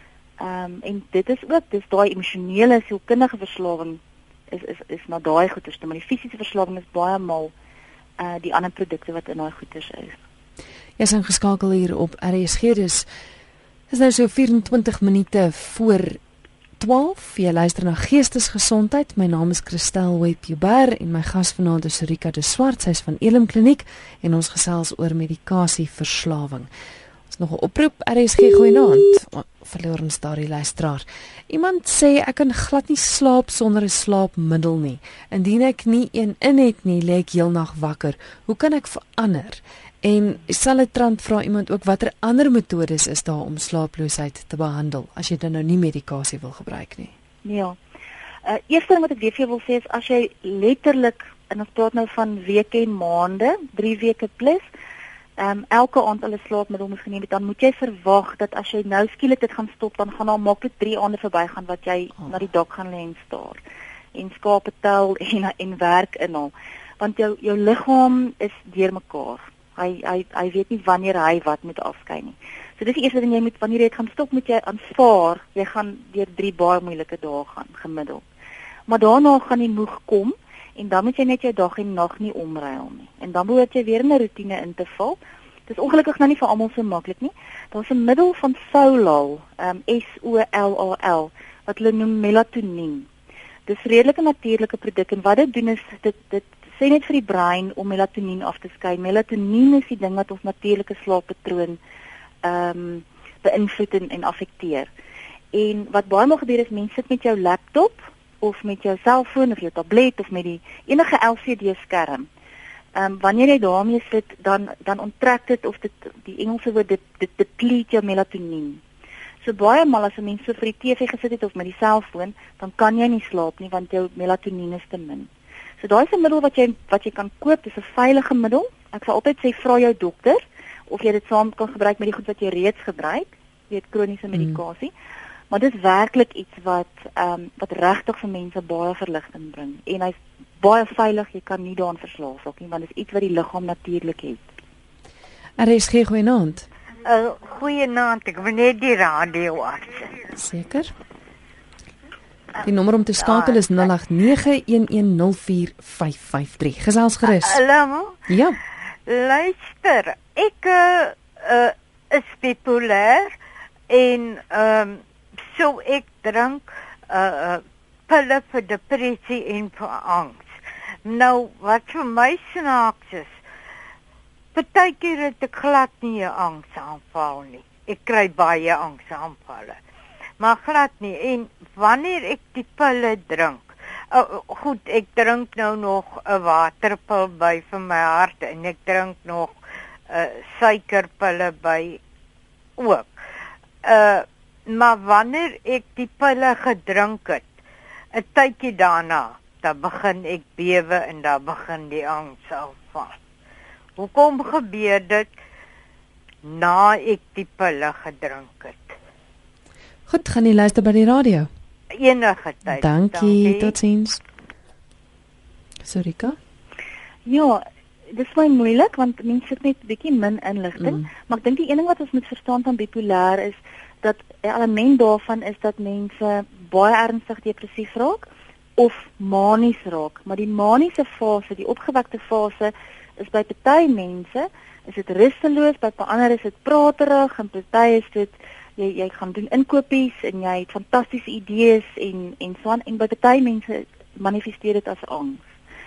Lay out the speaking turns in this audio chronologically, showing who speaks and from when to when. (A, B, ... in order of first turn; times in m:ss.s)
0:00.4-0:07.5 A
0:08.2-0:10.2 A
0:11.0-0:13.0 B
0:13.9-0:16.2 B
0:16.8-0:26.7 B
0:27.3-0:47.1 B
0:47.4-0:47.8 A
0:48.4-0:54.6 A
0:55.4-1:03.6 A
1:04.1-1:18.2 A
1:18.9-1:33.1 A
1:33.7-1:41.8 A
1:42.4-1:44.9 A
1:45.5-1:52.3 A
1:52.9-1:58.8 A
1:59.4-2:05.3 A
2:05.8-2:14.9 A
2:15.5-2:24.4 A
2:25.6-2:26.7 B
2:27.0-2:30.1 C
2:30.3-2:30.9 B
2:32.6-2:37.6 B
2:37.2-2:38.2 C
2:38.3-2:38.6 B
2:39.0-2:43.3 C
2:43.9-2:53.4 C
2:54.5-2:59.8 C
3:00.4-3:09.6 C
3:10.1-3:12.0 C
3:12.8-3:13.2 C
3:13.8-3:17.5 C
3:18.1-3:23.1 C
3:24.0-3:25.3 C
3:26.4-3:29.0 C
3:30.1-3:31.5 B
3:31.9-3:33.8 C
3:32.7-3:34.2 B
3:35.8-3:36.4 B
3:37.2-3:48.2 A
3:48.8-4:05.4 A